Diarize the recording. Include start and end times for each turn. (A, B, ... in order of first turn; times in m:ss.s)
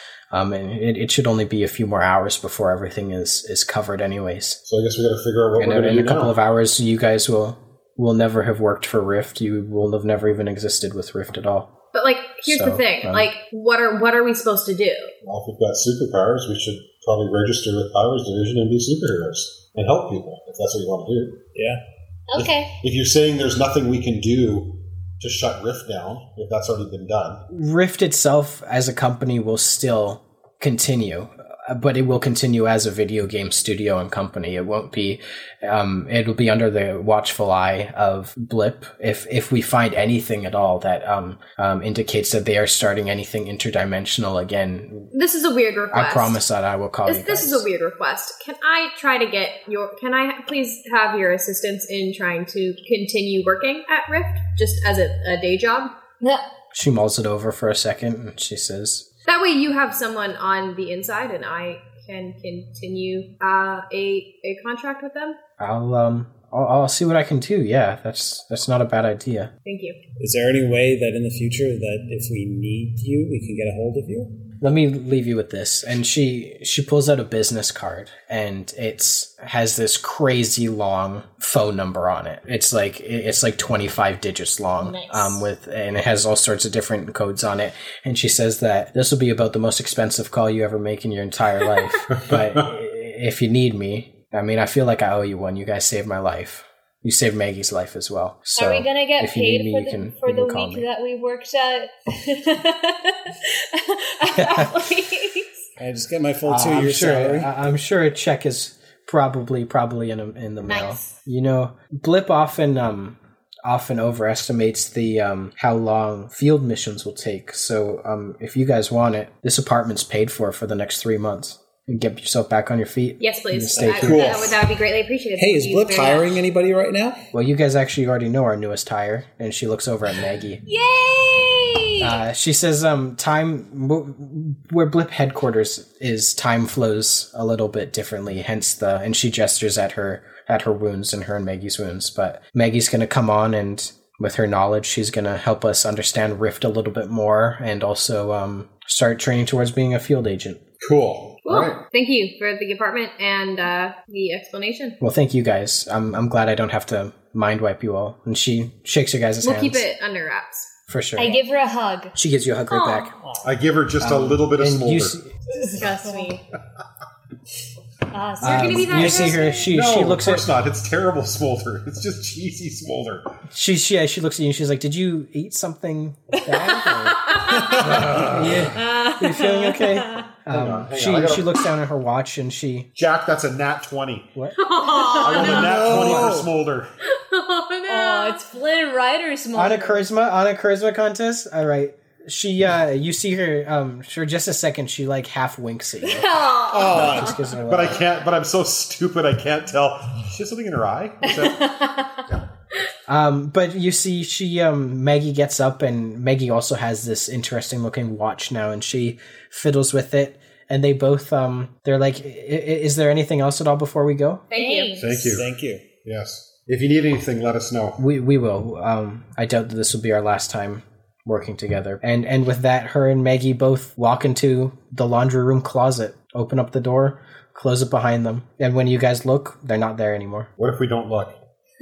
0:00.3-0:04.6 A
0:04.6-0:06.4 B
0:05.6-0:11.8 A
0:11.9-0:15.1 C
0:12.4-0:13.3 A
0:15.2-0:21.5 B
0:21.6-0:21.8 D
0:22.3-0:22.7 E
0:22.3-0:27.4 B
0:27.5-0:45.1 A
0:45.1-0:46.4 C
0:45.9-0:47.7 A
0:47.1-0:55.9 C
0:56.7-0:59.0 A
0:59.3-1:05.4 C
1:05.6-1:09.5 A
1:09.6-1:10.0 C
1:10.2-1:14.3 D
1:14.6-1:40.9 A
1:24.8-1:25.5 E
1:32.1-1:32.7 B
1:38.6-1:45.5 E
1:44.4-1:44.7 A
1:45.8-1:47.5 D
1:46.5-2:04.2 A
1:50.7-1:51.1 E
2:03.2-2:06.3 C
2:03.8-2:04.6 D
2:04.0-2:04.5 B
2:05.4-2:07.2 D
2:07.3-2:10.6 A
2:10.7-2:12.2 E
2:12.0-2:30.6 A
2:30.8-2:31.8 B
2:31.4-2:35.0 C
2:35.0-2:39.8 A
2:39.4-2:40.7 C
2:40.9-2:41.4 A
2:41.2-2:42.2 E
2:42.1-2:43.1 A
2:42.7-2:43.1 E
2:43.1-2:43.6 D
2:43.4-2:45.2 B
2:44.0-2:45.3 A
2:45.5-2:46.4 E
2:45.6-2:46.4 C
2:48.1-2:49.7 E
2:48.4-2:49.5 C
2:48.4-2:50.5 A
2:49.7-2:53.3 B
2:53.5-2:57.2 A
2:56.5-2:57.9 E
2:57.4-2:57.6 C
2:57.5-2:58.7 D
2:57.6-2:58.7 B
2:58.2-3:02.9 A
2:58.7-3:00.3 E
3:00.5-3:01.7 B
3:03.0-3:04.3 B
3:04.6-3:06.3 C
3:04.8-3:05.7 E
3:05.2-3:06.9 B
3:05.3-3:06.5 D
3:07.1-3:08.4 C
3:07.9-3:10.1 E
3:09.5-3:16.3 A
3:16.0-3:17.3 E
3:16.7-3:17.4 D
3:16.9-3:18.1 A
3:17.7-3:22.4 B
3:21.3-3:22.3 E
3:23.1-3:34.5 A
3:34.5-3:35.0 C
3:34.6-3:35.3 E
3:35.0-3:35.5 B
3:35.2-3:35.9 D
3:36.0-3:38.0 B
3:38.0-3:50.5 A
3:50.6-3:51.4 B